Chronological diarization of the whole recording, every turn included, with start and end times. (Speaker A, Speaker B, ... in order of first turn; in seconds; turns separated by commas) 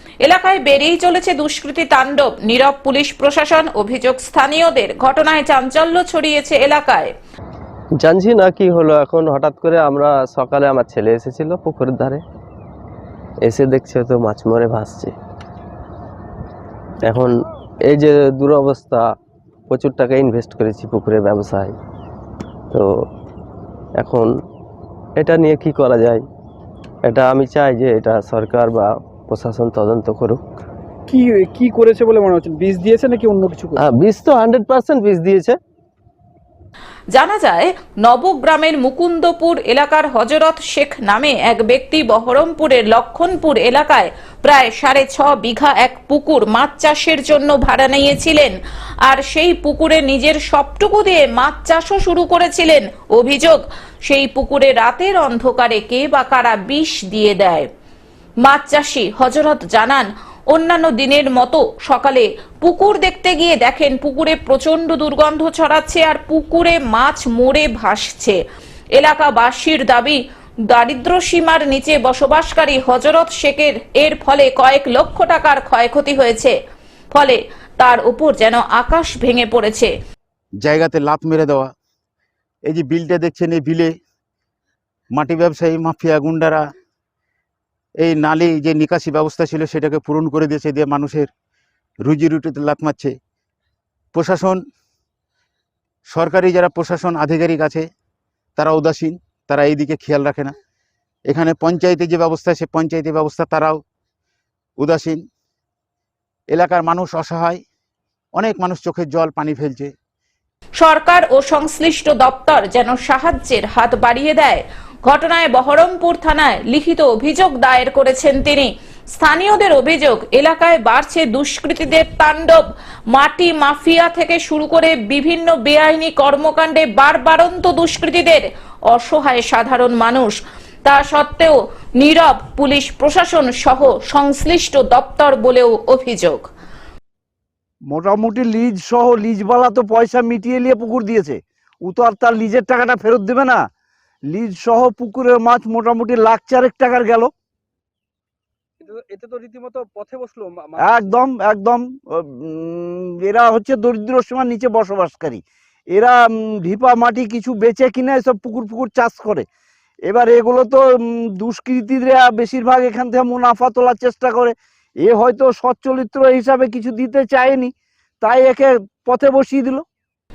Speaker A: 0.2-7.1, Speaker B: 8.0-12.2, Speaker B: 13.4-15.1, Speaker B: 17.9-19.0, Speaker B: 19.7-21.7, Speaker B: 24.0-24.3, Speaker B: 25.2-26.2, Speaker B: 27.1-30.4, Speaker C: 31.1-33.8, Speaker B: 33.8-35.6, Speaker A: 37.1-57.7, Speaker A: 58.4-68.4, Speaker A: 69.0-76.5, Speaker A: 77.1-79.9, Speaker D: 80.6-81.7, Speaker D: 82.7-83.9, Speaker D: 85.1-86.6, Speaker D: 88.0-91.3, Speaker D: 92.0-93.1, Speaker D: 94.1-94.6, Speaker D: 96.1-97.8, Speaker D: 98.6-100.5, Speaker D: 101.3-103.8, Speaker D: 104.8-105.2, Speaker D: 106.5-107.6, Speaker D: 108.3-109.9, Speaker A: 110.8-136.5, Speaker E: 137.9-143.6, Speaker E: 144.3-147.3, Speaker C: 148.8-151.1, Speaker E: 150.8-159.4, Speaker E: 160.1-169.8